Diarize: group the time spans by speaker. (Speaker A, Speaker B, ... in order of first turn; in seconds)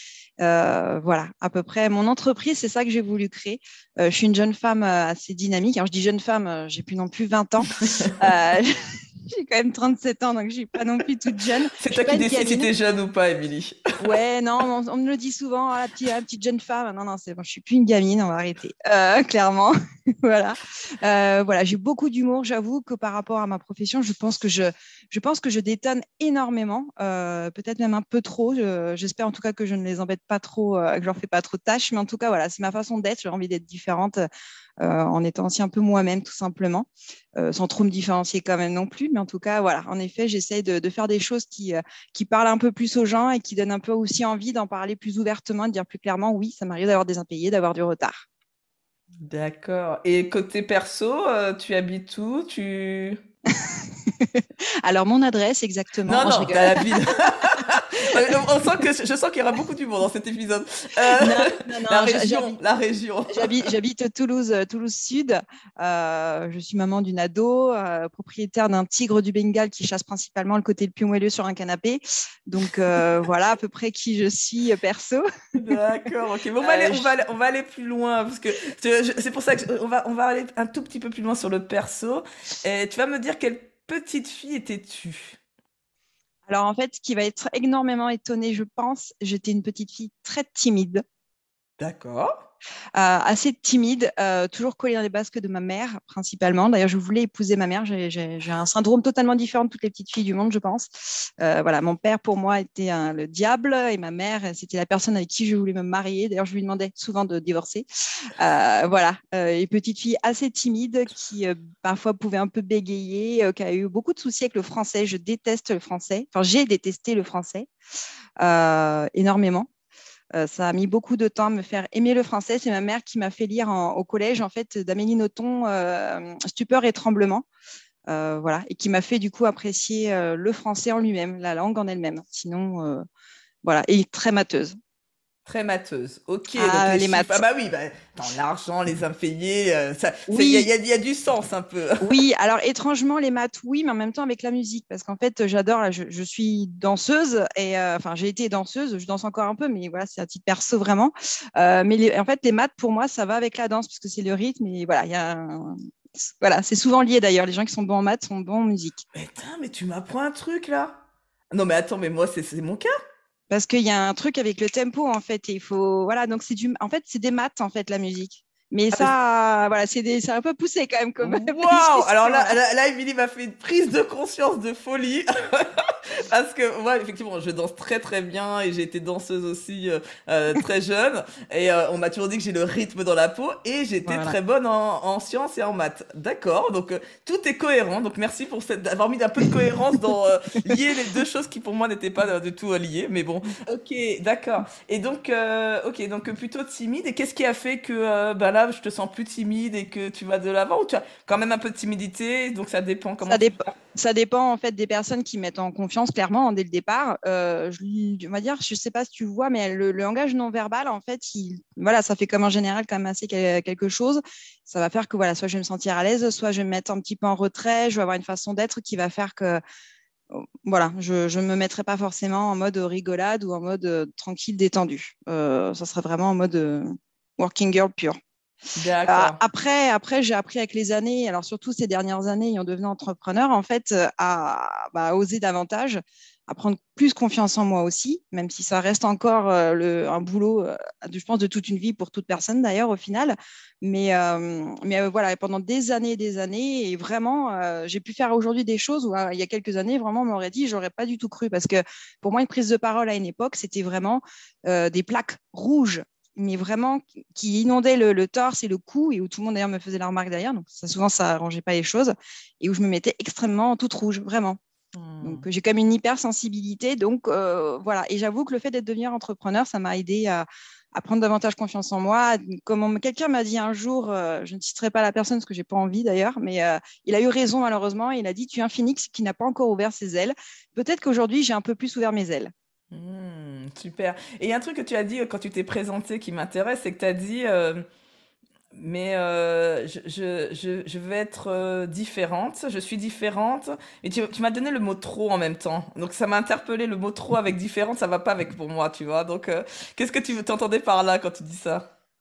Speaker A: 0.4-12.7, 14.0-34.2, 34.8-48.3, 53.6-58.4, 61.1-62.5, 63.3-75.2, 76.6-77.1, 86.5-91.0, 93.0-117.7, 118.4-119.7, 120.3-127.5, 128.1-133.0, 133.6-134.8, 136.5-137.4, 140.3-140.7, 142.0-159.0, 163.5-172.6, 184.1-184.3, 203.2-219.6, 220.3-228.2, 229.1-264.6, 265.2-282.5
Speaker B: 7.8-8.2, 11.8-13.8, 49.2-53.2, 56.1-63.7, 75.5-85.4, 91.8-92.5, 135.4-142.1, 159.1-161.0, 161.5-162.9, 171.2-203.6, 228.8-229.4, 264.9-265.4, 282.9-287.8, 288.7-301.9